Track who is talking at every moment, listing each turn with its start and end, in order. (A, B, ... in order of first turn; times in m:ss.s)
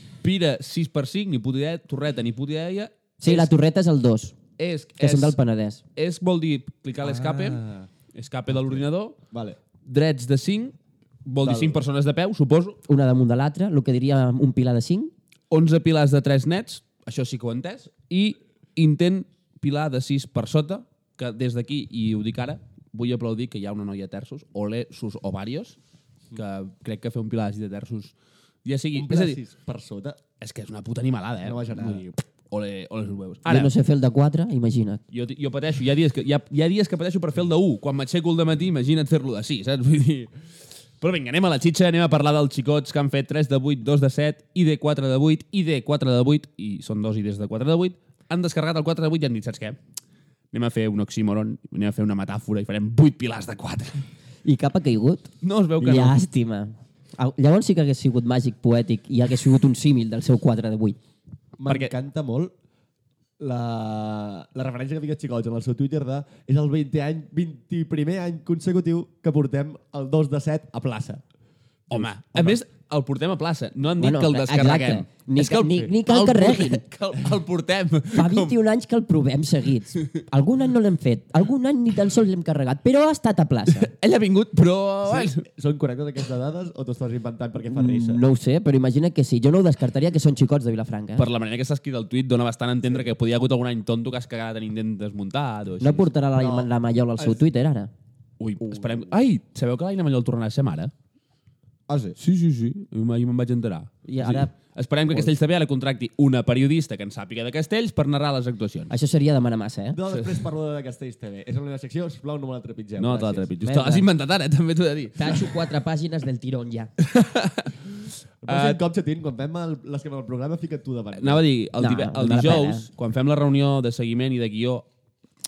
0:00.2-0:03.5 A
0:03.2-0:04.4 B
0:04.6-0:05.4 A
0:05.0-0:05.8 B
0:06.0-0:07.6 A
0:07.1-0:07.9 C
0:08.1-0:09.2 A
0:09.3-0:09.6 C
0:09.8-0:12.8 A
0:11.4-0:11.8 C
0:12.9-0:15.1 B
0:15.5-0:25.8 A
0:26.3-0:28.1 A
0:28.6-0:29.4 A
0:28.9-0:30.2 C
0:30.4-0:33.8 A
0:31.4-0:32.2 C
0:33.5-0:35.0 B
0:35.1-0:40.3 A
0:41.0-0:49.8 A
0:50.5-0:54.0 A
0:54.4-1:01.0 B
0:55.4-0:56.2 A
1:01.6-1:02.5 C
1:01.7-1:01.9 A
1:03.4-1:11.2 C
1:11.9-1:12.6 C
1:11.9-1:18.5 A
1:14.0-1:16.8 B
1:18.1-1:23.9 B
1:23.8-1:25.4 A
1:25.1-1:28.2 C
1:27.7-1:31.3 B
1:31.2-1:36.1 A
1:35.8-1:37.9 B
1:36.4-1:37.4 C
1:38.4-1:40.9 A
1:38.6-1:39.0 C
1:41.9-1:42.2 C
1:42.2-1:48.9 A
1:44.1-1:44.5 B
1:48.9-1:50.0 B
1:49.9-1:53.5 C
1:50.1-1:50.4 A
1:53.0-1:55.6 A
1:53.6-1:54.1 B
1:55.2-1:56.9 B
1:57.0-1:58.8 A
1:58.4-2:01.4 C
2:01.2-2:04.9 A
2:01.8-2:02.9 B